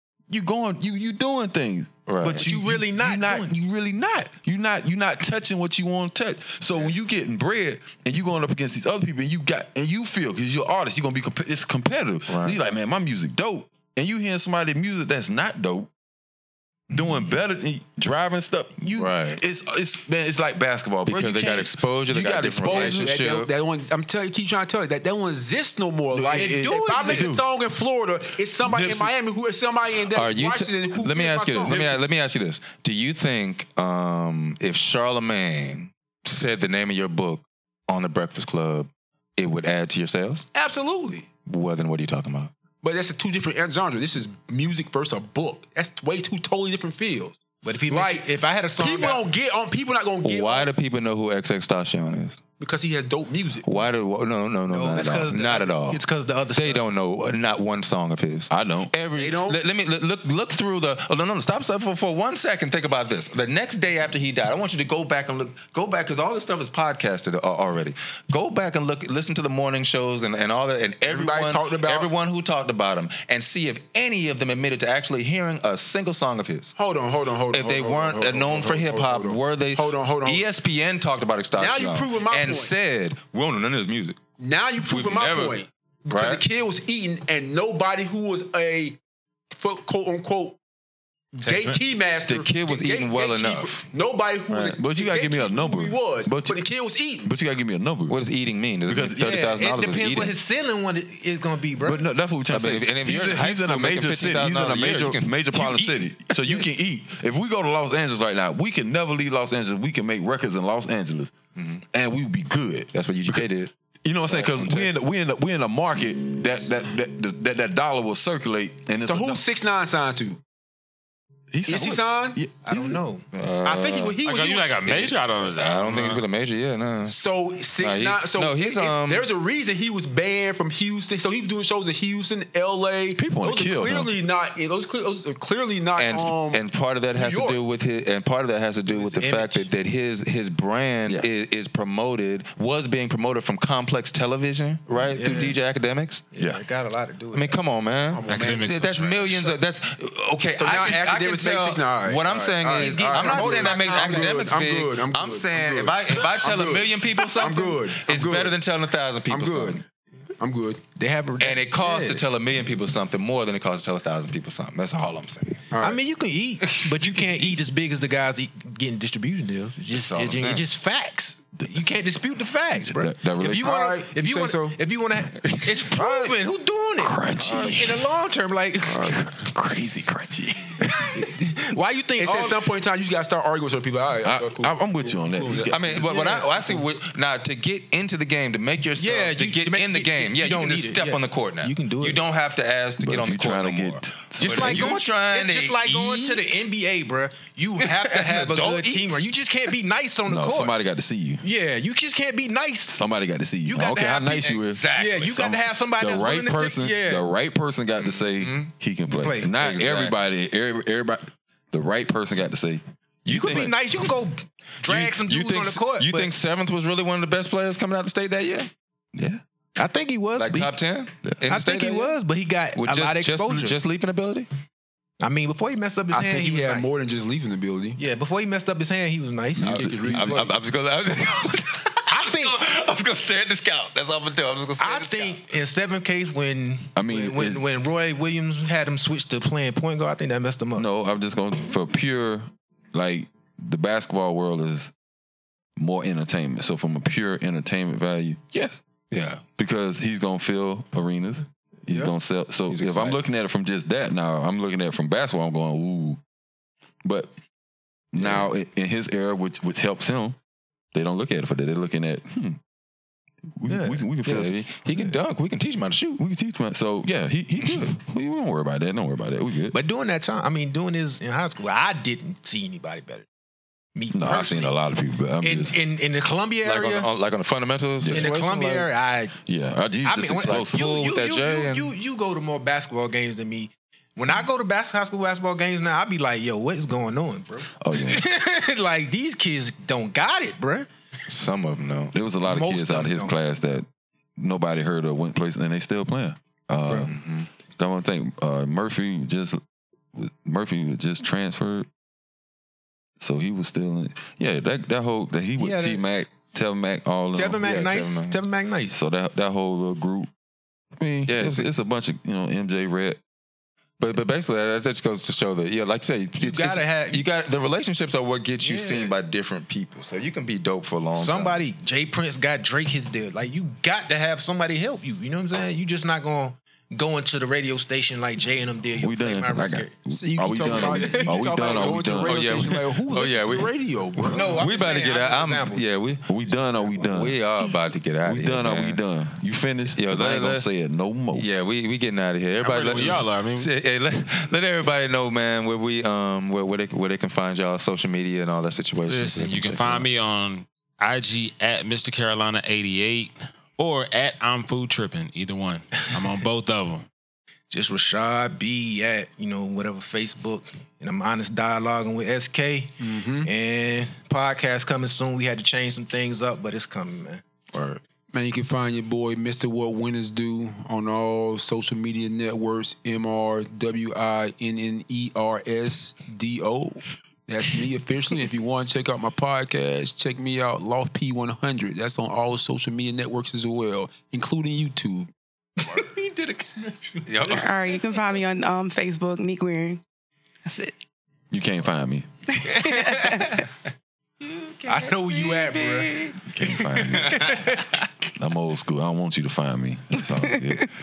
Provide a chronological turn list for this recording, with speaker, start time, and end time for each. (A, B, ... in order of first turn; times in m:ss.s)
0:00.3-0:15.9 A
0:02.0-0:02.5 B
0:02.3-0:03.6 C
0:12.3-0:12.6 B
0:16.9-0:17.3 B
0:16.9-0:23.2 A
0:18.8-0:19.4 B
0:21.1-0:23.5 B
0:22.7-0:32.0 D
0:26.1-0:27.4 A
0:26.2-0:27.3 C
0:28.6-0:29.1 A
0:30.1-0:40.5 B
0:31.7-0:32.0 A
0:40.5-0:41.3 D
0:41.4-0:42.5 B
0:42.8-0:48.2 D
0:47.6-0:49.2 C
0:48.8-0:50.8 D
0:50.2-0:52.4 B
0:52.6-0:53.7 D
0:53.6-0:56.0 B
0:54.7-0:56.9 C
0:56.6-1:16.8 B
0:58.5-0:59.0 A
0:59.1-0:59.6 D
1:11.1-1:12.1 D
1:16.8-1:20.5 D
1:17.5-1:24.2 B
1:21.5-1:22.7 D
1:24.4-1:29.0 D
1:24.8-1:26.4 B
1:29.5-1:30.6 D
1:31.3-1:37.3 D
1:31.5-1:31.8 E
1:32.2-1:33.9 B
1:34.5-1:34.8 B
1:34.7-1:36.6 A
1:37.2-1:38.2 A
1:38.1-1:40.3 B
1:38.9-1:39.4 A
1:39.2-1:42.0 C
1:41.8-1:51.4 A
1:42.5-1:46.6 B
1:51.6-1:51.8 B
1:51.9-1:53.4 A
1:52.9-1:53.7 B
1:54.0-1:59.4 A
1:54.3-1:55.0 B
1:59.0-2:00.4 D
2:01.5-2:03.0 A
2:01.7-2:02.4 D
2:02.6-2:03.3 C
2:03.3-2:04.2 B
2:03.6-2:04.8 D
2:04.2-2:06.2 E
2:04.8-2:07.2 B
2:07.1-2:17.6 D
2:07.8-2:09.3 B
2:13.2-2:14.1 A
2:16.0-2:26.3 B
2:18.9-2:19.7 C
2:25.1-2:25.6 C
2:26.3-2:27.6 C
2:27.3-2:39.8 B
2:28.1-2:29.0 D
2:28.3-2:29.4 E
2:30.6-2:38.6 D
2:32.6-2:34.4 C
2:39.3-2:39.8 D
2:40.4-2:40.8 D
2:41.0-2:42.2 C
2:41.4-2:45.6 B
2:45.7-2:46.0 D
2:45.8-2:59.2 C
2:46.6-2:47.6 B
2:50.0-2:50.6 B
2:51.6-2:51.9 A
2:52.8-2:53.8 A
2:53.4-2:54.8 D
2:55.4-2:56.2 A
2:57.0-2:58.0 A
2:58.9-3:00.7 A
3:01.0-3:02.6 C
3:02.2-3:06.0 D
3:04.2-3:05.9 A
3:05.7-3:16.4 B
3:06.0-3:06.8 C
3:09.0-3:12.2 C
3:13.0-3:15.0 A
3:14.4-3:20.7 C
3:17.8-3:19.2 B
3:20.3-3:21.4 A
3:21.4-3:23.0 C
3:22.9-3:32.8 A
3:23.6-3:27.3 C
3:24.3-3:25.4 B
3:28.0-3:28.7 B
3:29.1-3:29.5 C
3:29.5-3:30.2 B
3:33.3-3:33.8 B
3:33.3-3:36.3 C
3:34.8-3:38.7 B
3:39.2-3:39.4 A
3:39.8-3:40.7 C
3:40.4-3:42.2 B
3:41.5-3:43.8 C
3:42.8-3:44.5 B
3:45.2-3:46.9 C
3:46.1-3:48.0 D
3:48.0-3:50.5 C
3:49.6-3:50.4 A
3:49.7-3:50.5 D
3:49.7-3:55.4 B
3:52.1-3:52.6 C
3:54.8-4:00.9 C
3:57.0-3:57.7 A
4:00.8-4:04.9 A
4:05.8-4:08.8 A
4:09.1-4:09.4 B
4:09.6-4:16.2 A
4:12.7-4:13.2 B
4:17.0-4:17.3 A
4:18.1-4:20.4 A
4:20.9-4:22.6 A
4:23.6-4:24.5 A
4:23.7-4:24.0 C
4:24.2-4:26.2 B
4:26.2-4:29.8 A
4:29.7-4:33.3 C
4:34.0-4:34.7 C
4:34.1-4:35.8 A
4:35.4-4:37.1 C
4:36.6-4:38.9 B
4:38.0-4:38.4 A
4:38.1-4:39.4 C
4:39.5-4:41.0 A
4:40.0-4:50.9 C
4:40.3-4:41.9 B
4:47.8-4:48.2 A
4:51.3-4:52.2 B
4:52.1-4:53.9 A
4:52.4-4:53.4 C
4:54.4-4:57.2 A
4:57.0-4:57.5 B
4:57.8-4:59.6 A
5:00.2-5:01.9 A
5:03.2-5:07.6 A
5:05.6-5:06.0 C
5:07.4-5:09.0 C
5:07.6-5:08.4 B
5:08.9-5:10.3 A
5:11.0-5:13.2 A
5:11.3-5:11.7 B
5:14.0-5:21.6 B
5:16.4-5:17.2 C
5:18.6-5:19.1 C
5:21.1-5:32.2 C
5:29.0-5:32.6 A
5:30.1-5:34.6 D
5:32.2-5:39.0 B
5:34.3-5:35.8 C
5:36.3-5:37.4 A
5:38.2-5:41.5 A
5:40.0-5:40.7 B
5:41.3-5:50.1 B
5:42.6-5:43.7 E
5:49.1-5:57.1 E
5:57.7-6:07.4 C
6:03.0-6:03.5 D
6:07.7-6:08.0 B
6:08.3-6:25.3 D
6:25.8-6:27.3 C
6:27.3-6:27.7 B
6:27.4-6:30.0 F
6:30.6-6:30.9 F
6:31.5-6:32.3 A
6:32.6-6:33.6 F
6:32.8-6:33.5 C
6:34.6-6:36.4 F
6:34.9-6:37.8 C
6:36.5-6:37.4 A
6:38.4-6:40.8 A